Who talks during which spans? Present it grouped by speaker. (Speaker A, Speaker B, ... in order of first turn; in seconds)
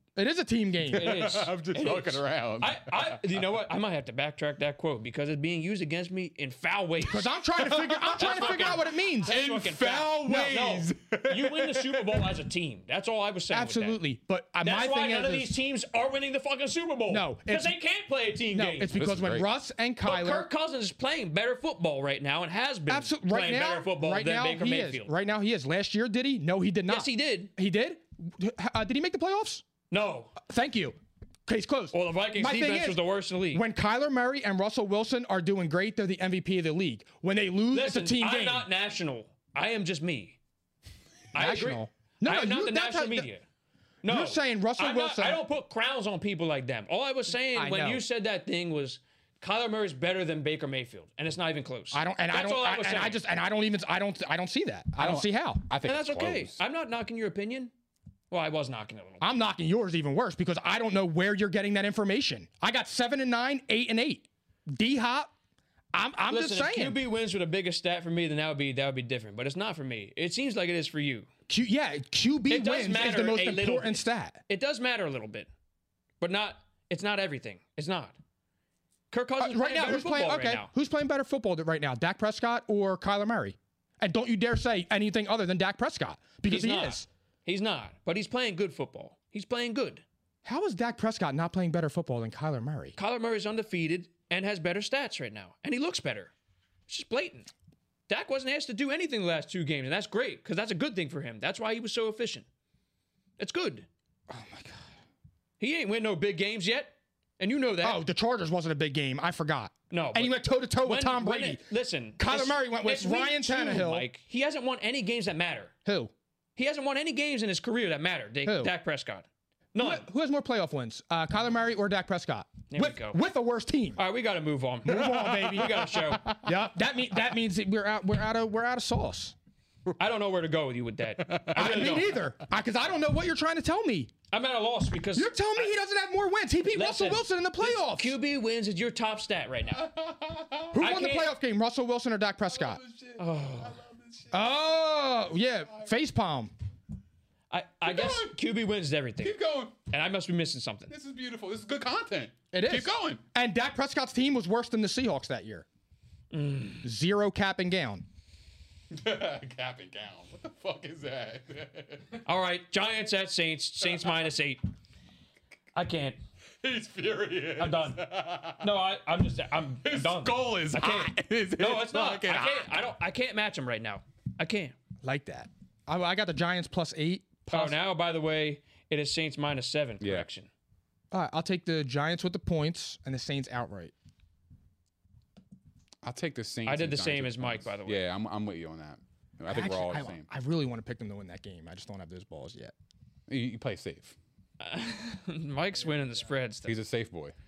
Speaker A: 0.1-1.1, 7.0-9.4, 10.2-10.6, 13.5-15.5, 17.1-17.8, 18.5-20.5, 22.9-29.6, 30.4-38.7, 41.3-43.3, 44.0-45.4, 47.4-48.0, 51.9-55.6, 59.2-65.3, 65.9-67.0, 71.5-74.4, 79.4-87.0, 90.4-93.0, 104.3-104.8, 107.8-114.0, 115.8-116.1, 118.4-118.7, 119.8-124.0, 124.8-125.8, 126.4-129.3, 131.5-134.1, 135.1-138.2, 140.7-142.8, 144.3-146.5, 152.5-155.7, 156.8-158.1, 175.0-177.8, 181.1-183.9, 189.5-192.7
Speaker B: 0.9-7.3, 8.1-14.0, 14.6-18.9, 20.0-25.1, 26.9-27.5, 29.9-30.3, 31.9-33.6, 37.7-40.4, 41.3-43.4, 44.0-53.2, 55.8-57.7, 58.3-59.3, 66.3-71.3, 72.5-75.5, 76.2-78.2, 79.1-80.7, 86.4-90.0, 93.0-96.3, 96.9-97.5, 98.1-102.5, 103.4-103.9, 105.6-108.0, 109.9-115.7, 116.5-120.0, 122.7-123.2, 124.0-126.2, 130.0-132.1, 134.3-135.7, 136.7-139.9, 140.8-141.3, 143.2-143.8, 147.5-150.9, 156.3-156.9, 162.2-164.6, 165.7-166.2, 167.6-168.0, 168.6-174.7, 177.5-180.5, 186.6-188.0, 194.6-196.8
Speaker C: 0.9-3.4, 7.6-12.2, 18.9-19.5, 55.0-56.6, 125.4-126.5, 131.3-132.1, 139.7-140.7, 142.5-145.2, 147.8-148.3, 149.2-149.7, 150.9-153.2, 158.9-162.2, 166.6-168.8, 169.8-172.7, 180.0-180.3, 186.0-190.3, 193.3-194.2, 196.7-197.3